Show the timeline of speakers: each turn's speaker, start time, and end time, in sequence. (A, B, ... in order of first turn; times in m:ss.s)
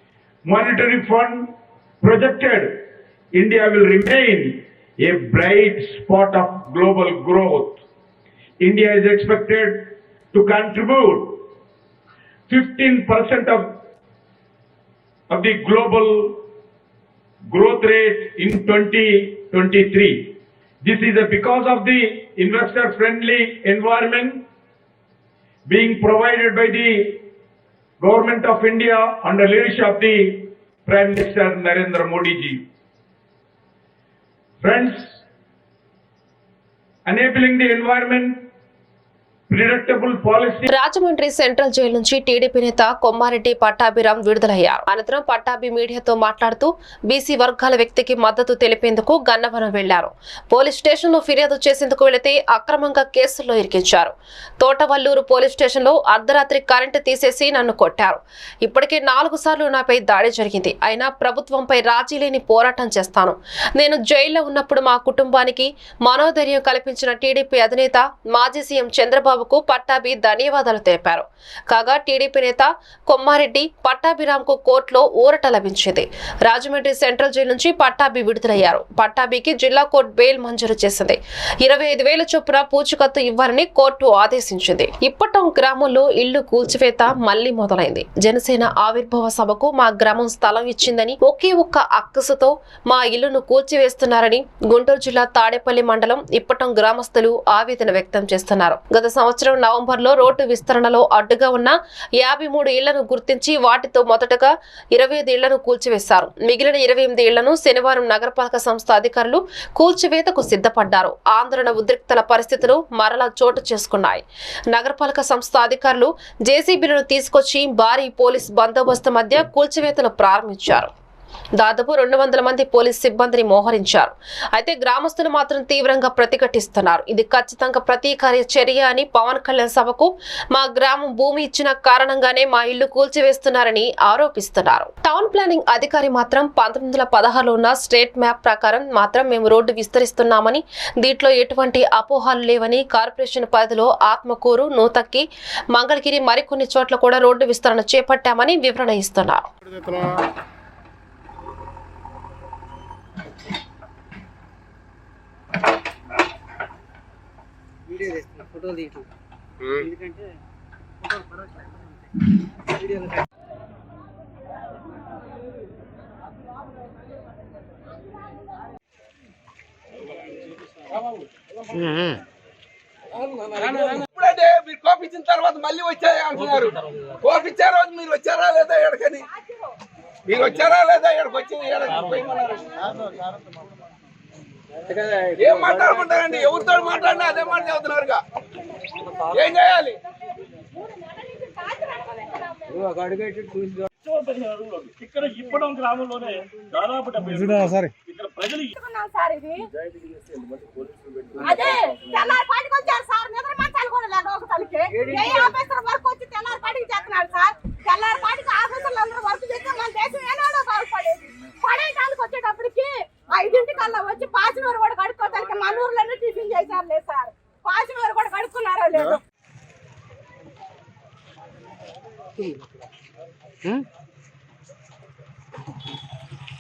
0:00.4-0:07.8 A
0:08.6-0:11.5 A
0:12.5-0:13.8 A
0:15.3-0:16.4 A
0:17.5-0:24.4 A
0:25.7-0:27.3 A
0:28.0-0:32.6 A
0:34.6-0:35.2 A
0:37.1-0:38.5 A
0:39.5-0:40.7 A
0:40.7-2:00.9 B
2:01.6-2:29.5 B
2:37.9-2:39.1 C
2:39.6-2:40.3 C
2:41.0-2:41.7 C
2:42.7-2:43.2 C
2:53.6-2:59.2 D
3:00.3-3:02.5 D
3:02.8-3:03.5 C
3:04.9-3:07.6 C
3:05.4-3:08.2 D
3:08.9-3:09.5 C
3:09.3-3:10.0 D
3:10.8-3:12.6 E
3:12.7-3:13.9 C
3:14.0-3:18.7 F
3:18.7-3:19.7 E
3:19.8-3:21.6 F
3:21.4-3:21.7 C
3:21.4-3:39.2 E
3:24.9-3:25.6 C